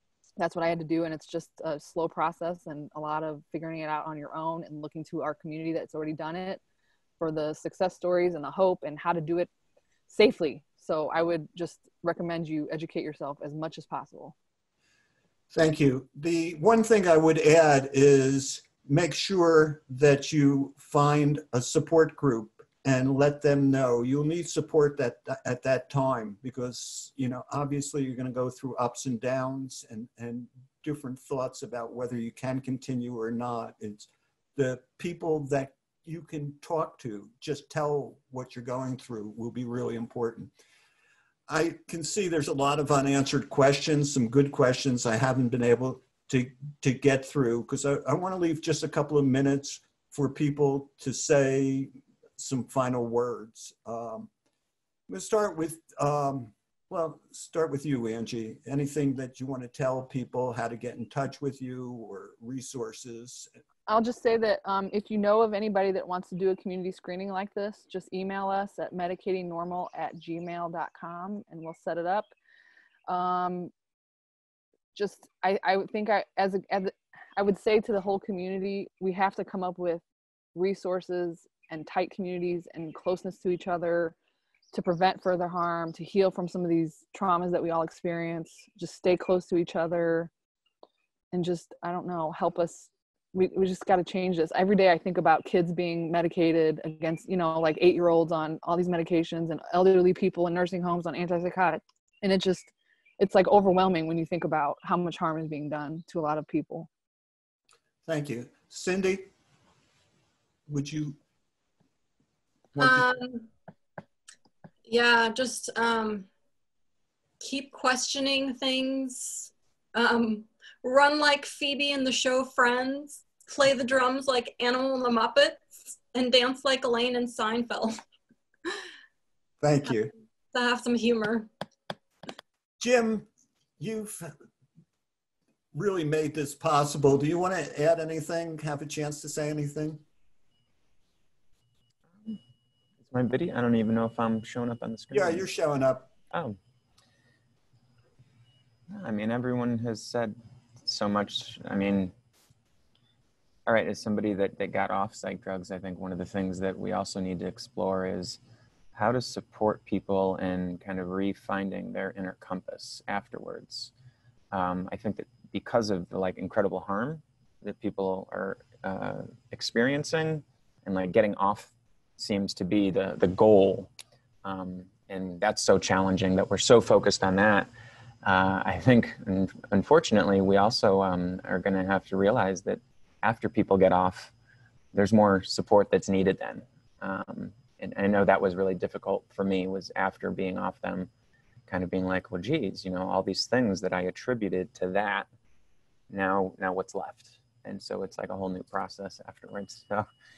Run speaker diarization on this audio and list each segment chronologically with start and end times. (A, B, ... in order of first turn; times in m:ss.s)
0:00.4-0:06.6 A
0:07.2-0:09.5 A
0:10.1-0:14.4 A
0:15.5-0:40.5 B
0:41.5-0:54.3 B
0:55.1-1:03.5 B
1:03.9-1:12.3 A
1:13.1-1:13.7 A
1:14.9-1:20.0 A
1:20.6-1:24.2 A
1:24.7-1:30.3 A
1:31.3-1:46.9 A
1:48.1-1:49.3 B
1:50.7-1:51.2 B
1:52.8-1:53.1 B
1:52.8-1:53.5 C
1:54.8-1:56.3 C
1:57.4-2:08.0 C
2:09.6-2:10.1 B
2:10.5-2:11.5 C
2:12.8-2:14.3 B
2:15.7-2:20.0 B
2:23.0-2:25.5 D
2:25.1-2:26.1 B
2:26.3-2:26.6 D
2:28.9-2:32.1 D
2:33.7-2:38.4 D
2:38.9-2:43.9 D
2:44.5-2:53.9 D
2:54.4-2:57.7 D
2:58.2-3:04.3 D
3:04.9-3:11.1 D
3:11.7-3:15.3 D
3:16.1-3:20.1 D